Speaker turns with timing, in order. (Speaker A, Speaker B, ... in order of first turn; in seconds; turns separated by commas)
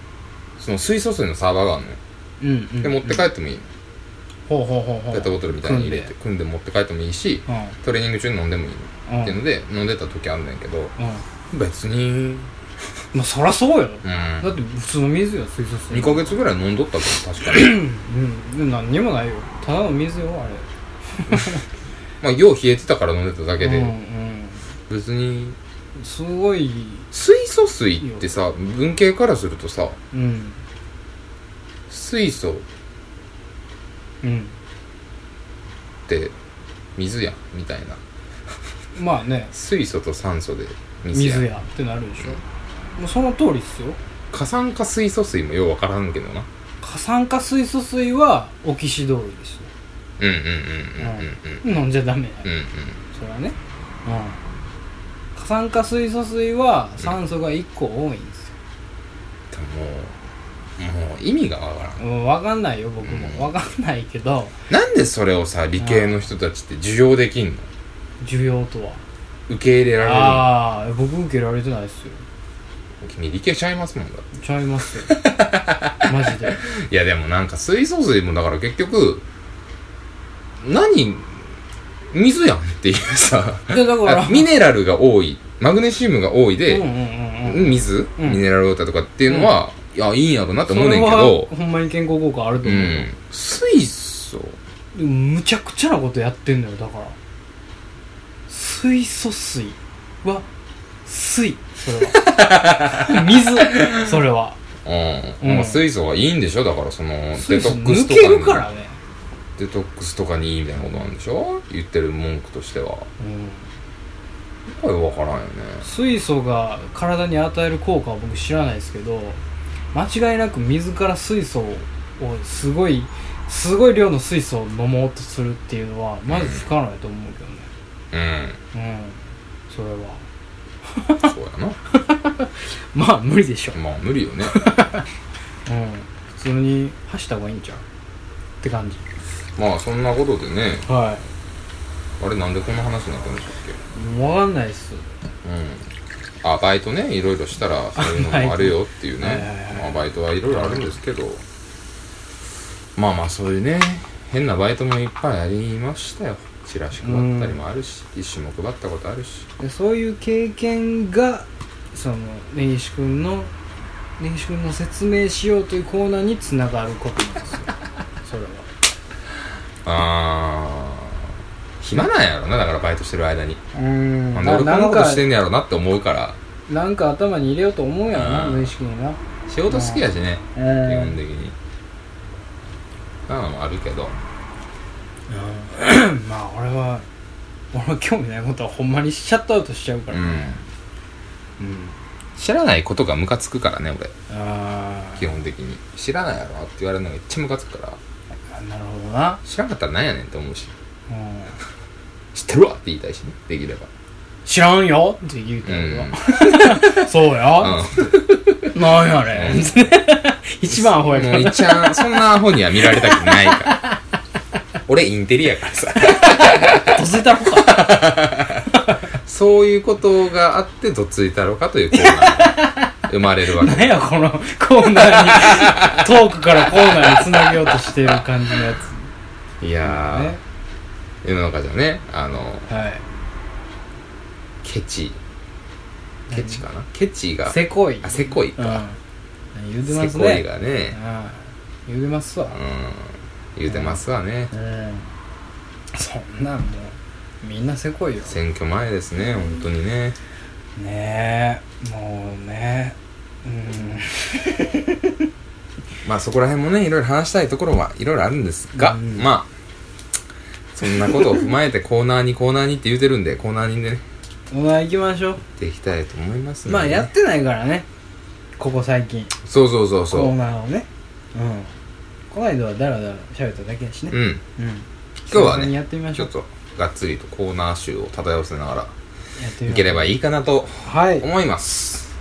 Speaker A: 0.6-2.0, Speaker B: 2.4-3.2, Speaker A: 2.8-3.6, Speaker B: 4.5-6.1, Speaker A: 5.1-10.9, Speaker B: 7.5-7.8, Speaker B: 9.1-9.4, Speaker B: 11.0-11.2, Speaker A: 11.5-12.5, Speaker B: 13.1-16.4, Speaker A: 14.0-14.5, Speaker A: 15.9-17.9, Speaker B: 17.4-21.6, Speaker A: 22.2-23.9, Speaker B: 23.6-24.7, Speaker A: 24.9-25.6, Speaker B: 26.0-27.1, Speaker A: 27.1-30.0, Speaker B: 30.1-30.6, Speaker A: 31.9-32.7, Speaker B: 34.2-34.5, Speaker A: 36.1-36.3, Speaker A: 37.0-38.0, Speaker B: 39.0-39.5, Speaker A: 39.5-41.5, Speaker B: 41.1-42.4, Speaker B: 43.0-44.0, Speaker A: 44.3-46.5, Speaker B: 46.8-49.7, Speaker A: 50.2-51.6, Speaker B: 51.0-52.5, Speaker A: 52.4-53.0, Speaker B: 53.1-54.4, Speaker B: 55.4-58.5, Speaker A: 59.5-60.2, Speaker A: 60.8-62.0, Speaker B: 62.0-64.5, Speaker A: 63.0-63.5, Speaker A: 64.7-67.7, Speaker B: 65.8-66.1, Speaker B: 68.2-69.0, Speaker A: 69.5-70.5, Speaker B: 70.0-72.2, Speaker A: 73.0-74.3, Speaker B: 74.3-75.1, Speaker A: 75.1-79.2, Speaker B: 76.0-76.6, Speaker A: 80.6-81.5, Speaker A: 82.1-86.8, Speaker B: 83.7-84.5, Speaker B: 86.7-88.4, Speaker A: 87.4-91.5, Speaker B: 89.3-89.5, Speaker B: 90.7-93.1, Speaker A: 92.6-94.6, Speaker B: 94.9-97.2, Speaker B: 98.5-100.5, Speaker B: 101.0-104.6, Speaker A: 102.1-104.1, Speaker A: 104.8-108.7, Speaker B: 105.4-105.8, Speaker B: 107.4-109.0, Speaker A: 109.6-113.1, Speaker B: 113.2-113.7, Speaker A: 114.7-115.9, Speaker B: 115.8-119.4, Speaker B: 119.9-127.7, Speaker A: 126.3-126.7, Speaker A: 128.1-128.6, Speaker B: 128.7-130.2, Speaker B: 130.8-131.3, Speaker A: 131.2-131.8, Speaker B: 131.9-133.8, Speaker A: 133.8-134.6, Speaker B: 134.5-135.1, Speaker B: 135.7-137.8, Speaker B: 138.6-139.0, Speaker A: 139.6-140.9, Speaker B: 140.9-141.3, Speaker A: 142.2-143.8, Speaker B: 143.9-145.1, Speaker A: 145.4-145.9, Speaker A: 146.4-151.4, Speaker B: 148.0-150.9, Speaker A: 153.0-159.5, Speaker B: 157.0-157.6, Speaker B: 159.6-163.5, Speaker B: 164.2-167.7, Speaker B: 168.2-168.7, Speaker A: 169.8-171.2, Speaker A: 171.8-173.6, Speaker B: 173.7-175.2, Speaker A: 174.3-176.4, Speaker B: 176.7-180.0, Speaker A: 178.1-178.7, Speaker A: 179.5-181.6, Speaker B: 180.6-181.2, Speaker A: 183.3-184.2, Speaker B: 185.3-187.1, Speaker B: 187.7-190.6, Speaker A: 190.1-190.6, Speaker B: 191.6-192.0, Speaker A: 192.4-194.1, Speaker B: 194.3-195.3, Speaker A: 195.2-198.0, Speaker B: 198.5-199.4, Speaker A: 199.4-200.7, Speaker B: 201.1-201.6, Speaker A: 202.3-203.9, Speaker B: 204.4-212.1, Speaker A: 205.7-207.0, Speaker A: 207.6-208.7, Speaker A: 209.3-209.7, Speaker A: 210.7-213.8, Speaker B: 212.9-213.9, Speaker A: 214.9-218.7, Speaker B: 216.0-219.0, Speaker A: 219.2-224.0, Speaker B: 221.9-222.9, Speaker B: 223.5-229.1, Speaker A: 225.0-226.1, Speaker A: 226.8-227.9, Speaker A: 229.6-230.4, Speaker B: 229.8-230.4, Speaker A: 231.2-232.7, Speaker B: 232.7-233.1, Speaker A: 234.6-235.2, Speaker B: 236.3-236.6, Speaker A: 236.3-238.8, Speaker B: 237.5-239.0, Speaker B: 239.5-242.6, Speaker A: 239.9-241.0, Speaker A: 242.5-244.5, Speaker B: 243.7-244.0, Speaker B: 244.5-245.1, Speaker B: 245.9-248.4, Speaker A: 248.3-250.2, Speaker B: 250.8-255.3, Speaker A: 256.0-259.5, Speaker B: 258.7-259.3, Speaker A: 260.7-264.0, Speaker B: 260.9-261.4, Speaker B: 264.5-265.4, Speaker A: 265.6-267.1, Speaker B: 266.7-267.9, Speaker B: 268.6-269.3, Speaker A: 269.4-270.3, Speaker B: 270.1-271.8, Speaker B: 272.3-276.3, Speaker A: 274.1-274.4, Speaker A: 275.3-278.9, Speaker B: 279.4-280.1, Speaker A: 279.7-282.0, Speaker B: 280.8-281.3